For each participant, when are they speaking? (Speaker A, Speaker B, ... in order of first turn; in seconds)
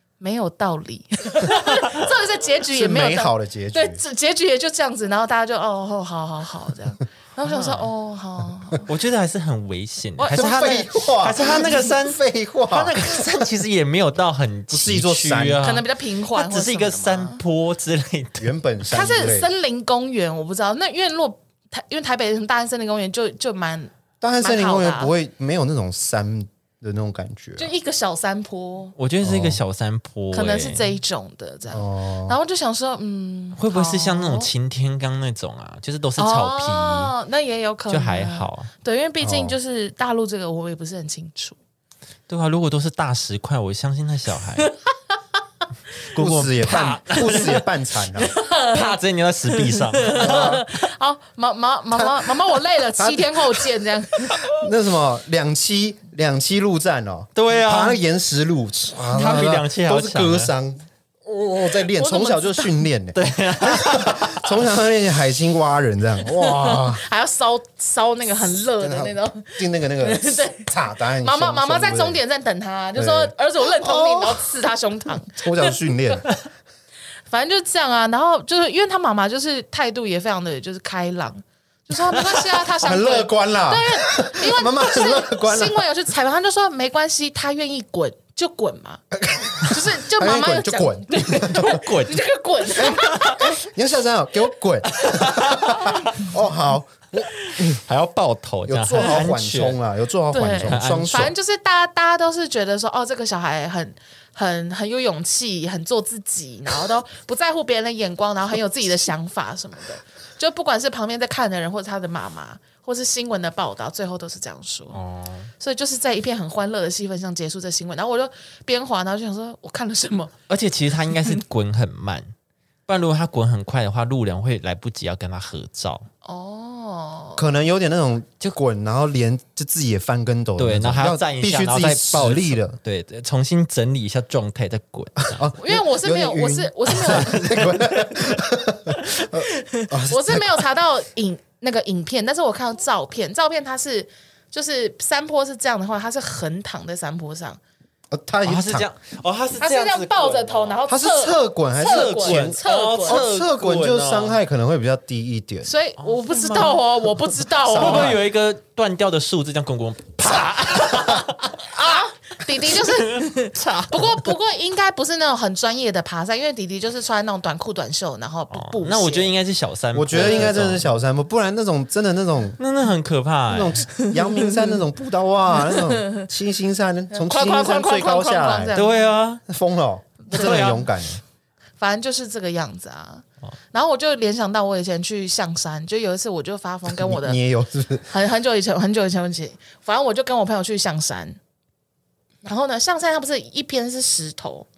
Speaker A: 0.2-8.9, 10.2-11.9, 15.6-17.4, 18.9-25.1, 27.6-28.9, 30.3-34.5, 36.2-41.6, 48.2-49.0, 49.5-54.4, 61.9-62.8, 66.2-76.2, 77.3-89.0, 89.6-93.5, 100.3-115.0, 115.6-120.4, 126.2-127.5, 135.6-137.5, 139.3-147.6, 149.6-153.2, 155.6-158.2, 161.8-169.3, 174.0-174.8, 175.6-176.3, 177.1-179.1, 180.3-180.8, 181.8-187.4, 188.1-191.4, 192.4-194.7
Speaker B: 1.6-2.0, 7.4-7.9, 8.8-18.5, 28.9-30.9, 33.5-37.1, 37.9-38.7, 42.3-44.7, 46.1-47.6, 48.7-50.9, 57.3-58.0, 59.1-60.5, 63.1-64.6, 82.0-82.3, 91.5-92.2, 93.0-93.3, 94.9-96.1, 97.5-99.8, 100.6-101.3, 114.9-115.5, 120.5-122.3, 122.9-126.1, 130.6-135.4, 137.1-138.1, 148.4-150.8, 151.8-154.4, 156.0-156.8, 157.7-162.1, 162.6-164.3, 168.5-170.9, 172.6-173.9, 178.7-179.4, 180.3-180.9
Speaker C: 2.7-4.0, 10.3-13.4, 14.7-15.6, 18.4-19.5, 24.2-27.7, 29.2-29.6, 31.7-32.4, 39.2-39.6, 46.1-48.4, 50.1-50.6, 51.9-52.3, 52.9-53.7, 54.4-67.0, 68.8-72.2, 73.0-74.5, 75.4-76.3, 82.8-85.8, 89.1-91.8, 92.8-97.8, 98.6-101.3, 127.3-132.8, 135.2-140.7, 148.1-148.8, 150.9-155.7, 157.6-158.2, 169.9-172.6, 173.5-178.8, 179.5-181.2, 186.9-188.1